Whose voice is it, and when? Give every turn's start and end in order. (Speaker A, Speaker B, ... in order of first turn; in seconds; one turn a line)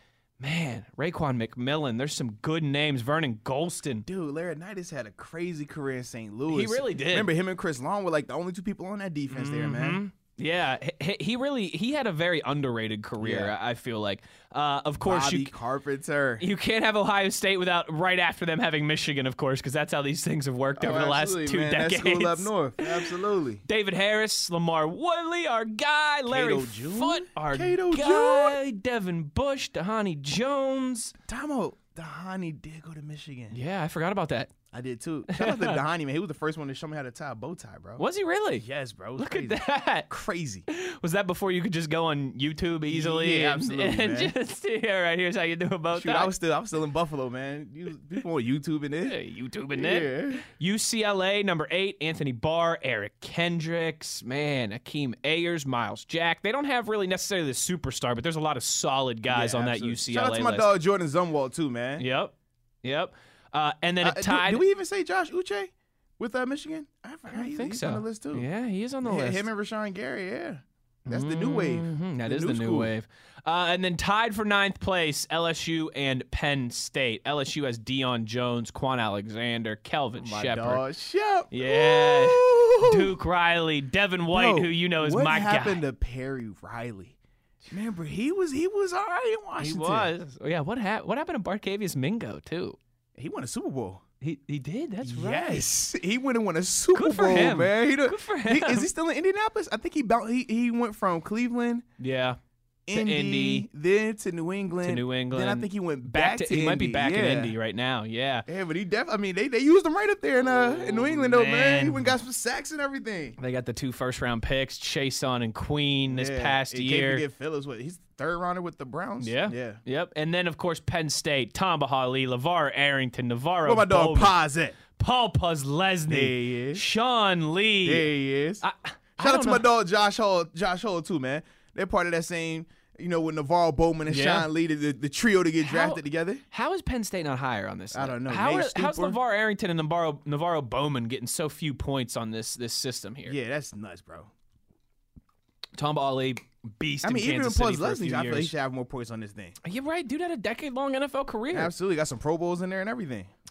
Speaker A: 0.4-4.1
Speaker B: 4.1-10.0
Speaker A: 6.5-7.3
Speaker A: 9.3-15.5
Speaker B: 13.2-13.5
Speaker B: 15.0-16.4
Speaker A: 16.4-23.1
Speaker B: 20.8-23.6
Speaker A: 23.6-31.1
Speaker B: 26.3-28.6
Speaker B: 31.3-33.6
Speaker A: 33.5-34.5
Speaker B: 34.7-38.0
Speaker A: 35.3-35.8
Speaker A: 38.0-38.6
Speaker B: 38.6-40.6
Speaker A: 39.2-40.1
Speaker A: 40.7-46.3
Speaker B: 42.9-44.3
Speaker B: 45.9-49.2
Speaker A: 49.0-60.7
Speaker B: 49.7-50.4
Speaker B: 59.3-62.0
Speaker A: 62.0-64.6
Speaker B: 64.0-68.5
Speaker A: 67.3-69.5
Speaker B: 69.0-72.9
Speaker A: 71.1-80.8
Speaker B: 80.2-83.1
Speaker A: 81.5-85.8
Speaker B: 84.3-87.2
Speaker B: 87.7-90.1
Speaker A: 89.6-92.8
Speaker B: 93.1-94.0
Speaker A: 94.2-95.7
Speaker B: 95.0-101.8
Speaker A: 96.9-98.9
Speaker A: 102.0-102.4
Speaker B: 102.9-107.5
Speaker A: 102.9-103.7
Speaker A: 104.8-108.5
Speaker B: 108.5-113.4
Speaker A: 111.0-112.1
Speaker A: 113.4-117.2
Speaker B: 116.1-119.8
Speaker A: 119.2-124.3
Speaker B: 123.6-124.8
Speaker A: 124.9-129.6
Speaker B: 126.1-126.8
Speaker B: 127.8-128.6
Speaker B: 129.2-136.4
Speaker A: 134.1-134.5
Speaker A: 135.6-143.3
Speaker B: 137.9-139.2
Speaker B: 143.3-144.3
Speaker A: 145.8-148.5
Speaker B: 147.0-149.6
Speaker A: 149.6-151.7
Speaker B: 151.5-153.3